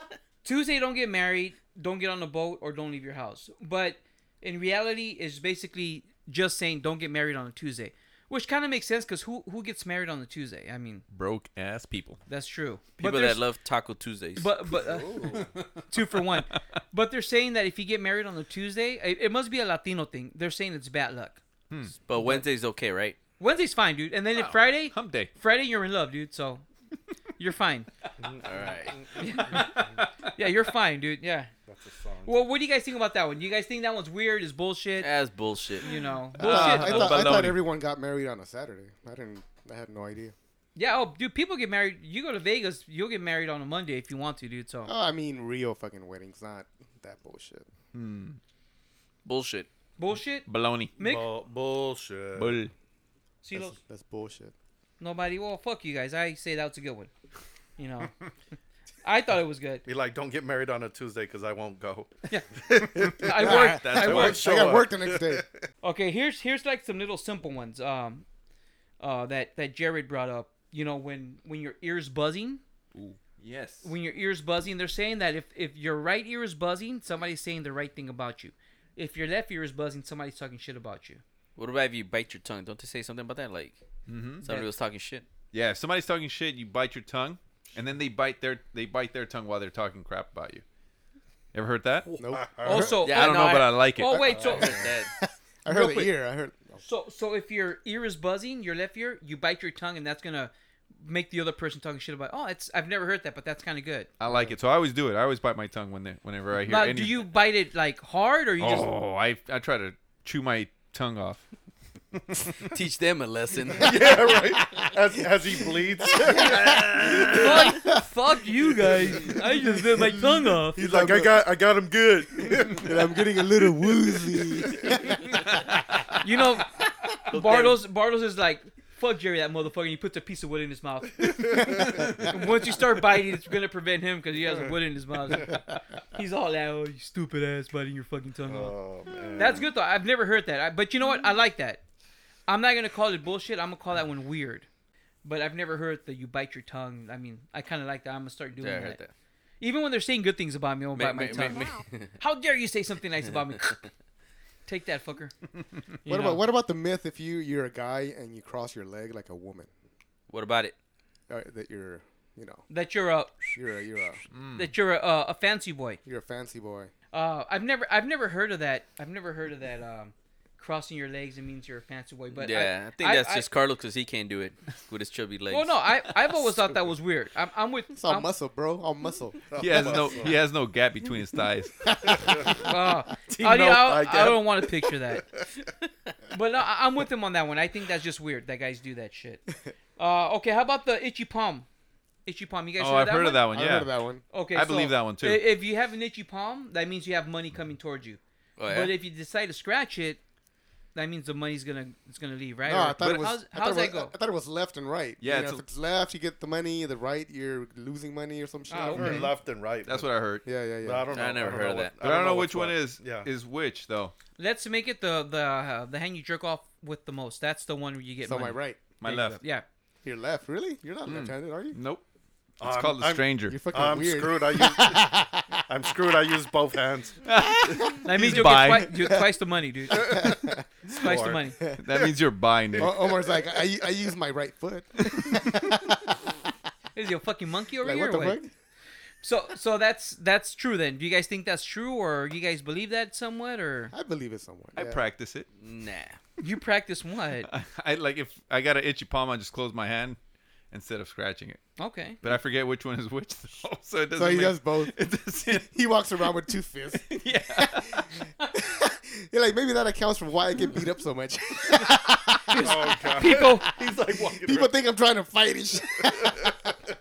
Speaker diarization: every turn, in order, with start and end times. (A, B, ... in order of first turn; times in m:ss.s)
0:00.4-0:11.0 A
0:11.1-0:12.2 B
0:12.3-0:13.4 A
0:13.0-0:14.5 C
0:14.4-0:15.2 A
0:14.7-0:15.5 D
0:15.9-0:21.4 A
0:22.1-0:23.2 C
0:23.4-0:26.6 A
0:24.3-0:25.3 B
0:27.4-0:27.9 A
0:28.2-0:29.7 D
0:28.4-0:29.0 C
0:29.2-0:31.5 A
0:29.5-0:30.1 B
0:31.7-0:32.3 D
0:32.2-0:35.1 A
0:35.0-0:35.9 C
0:35.8-0:37.3 A
0:36.4-0:37.6 B
0:36.4-0:40.3 E
0:40.8-0:44.9 A
0:44.8-0:47.7 E
0:47.9-0:48.4 B
0:49.2-0:49.7 C
0:50.0-0:50.5 A
0:50.5-0:51.0 B
0:51.0-0:51.2 A
0:51.0-0:52.6 D
0:52.4-0:52.7 B
0:53.4-0:53.8 A
0:53.5-0:54.5 E
0:55.0-0:57.1 A
0:57.8-0:58.1 A
0:59.0-0:59.8 A
0:59.8-1:02.1 D
1:02.7-1:03.3 D
1:03.0-1:04.4 A
1:03.3-1:04.4 B
1:03.4-1:05.4 E
1:03.9-1:05.4 D
1:05.8-1:08.2 A
1:09.0-1:12.6 A
1:12.9-1:13.9 B
1:13.8-1:21.2 A
1:21.6-1:23.8 C
1:24.1-1:24.6 B
1:24.4-1:25.2 C
1:25.5-1:30.6 B
1:31.5-1:32.1 B
1:32.2-1:32.9 E
1:32.2-1:33.0 D
1:32.6-1:34.8 A
1:33.0-1:34.3 B
1:33.0-1:33.7 C
1:34.3-1:34.9 D
1:34.3-1:36.8 E
1:34.6-1:35.1 C
1:35.7-1:36.2 A
1:36.8-1:44.1 A
1:44.2-1:47.3 B
1:44.3-1:44.5 E
1:46.6-1:48.9 A
1:48.6-1:51.4 B
1:52.2-1:52.5 B
1:52.7-1:53.9 C
1:53.8-1:57.6 D
1:53.8-1:55.0 E
1:56.2-1:58.0 E
1:56.3-2:00.8 A
2:00.1-2:01.4 E
2:00.8-2:05.0 D
2:02.7-2:05.8 E
2:06.2-2:18.7 A
2:07.3-2:07.8 C
2:11.2-2:12.2 D
2:18.5-2:19.7 D
2:19.4-2:21.8 A
2:22.5-2:24.7 A
2:25.2-2:29.0 A
2:28.6-2:29.1 C
2:29.6-2:31.7 A
2:30.9-2:32.1 C
2:32.2-2:33.9 A
2:34.7-2:35.3 A
2:36.0-2:36.4 A
2:36.0-2:39.7 E
2:40.3-2:40.7 C
2:41.3-2:42.6 E
2:42.7-2:43.6 A
2:43.5-2:44.2 E
2:44.3-2:44.7 B
2:44.5-2:46.0 A
2:46.0-2:46.9 E
2:47.1-2:53.4 A
2:52.3-2:55.9 C
2:55.5-2:58.3 A
2:58.0-3:00.0 E
2:59.5-3:00.4 D
2:59.6-3:02.0 B
3:01.9-3:02.5 E
3:02.0-3:02.7 D
3:02.6-3:05.2 A
3:03.3-3:05.4 D
3:06.3-3:09.4 A
3:10.0-3:11.7 A
3:12.2-3:13.5 A
3:12.8-3:13.9 B
3:13.5-3:14.2 E
3:14.3-3:20.2 A
3:14.5-3:15.4 B
3:18.6-3:18.9 C
3:20.9-3:24.1 A
3:22.6-3:29.3 E
3:25.2-3:25.6 B
3:28.7-3:29.2 A
3:28.9-3:30.2 D
3:29.0-3:30.4 B
3:30.4-3:31.3 E
3:30.8-3:33.3 D
3:31.1-3:31.9 C
3:32.0-3:34.1 B
3:34.4-3:39.6 A
3:38.2-3:38.8 E
3:39.0-3:39.4 B
3:40.0-3:41.8 E
3:41.0-3:42.0 B
3:42.6-3:43.6 B
3:42.6-3:45.1 D
3:43.4-3:45.6 E
3:45.7-3:47.2 D
3:47.2-3:48.9 B
3:48.0-3:50.3 A
3:48.8-3:49.2 E
3:49.9-3:50.6 E
3:49.9-3:52.1 D
3:50.9-3:51.6 A
3:51.6-3:52.0 E
3:51.8-3:52.9 B
3:52.7-3:53.1 D
3:52.8-3:56.3 E
3:56.9-3:58.4 A
3:57.8-3:58.5 E
3:59.2-4:03.9 A
4:03.9-4:05.0 E
4:04.8-4:05.5 B
4:05.6-4:06.2 C
4:06.4-4:07.5 A
4:07.5-4:10.2 B
4:10.7-4:11.6 B
4:11.8-4:12.2 A
4:12.2-4:15.7 B
4:14.2-4:14.9 E
4:15.5-4:26.7 E
4:17.1-4:18.0 B
4:22.5-4:23.6 A
4:22.6-4:24.7 D
4:26.2-4:26.4 D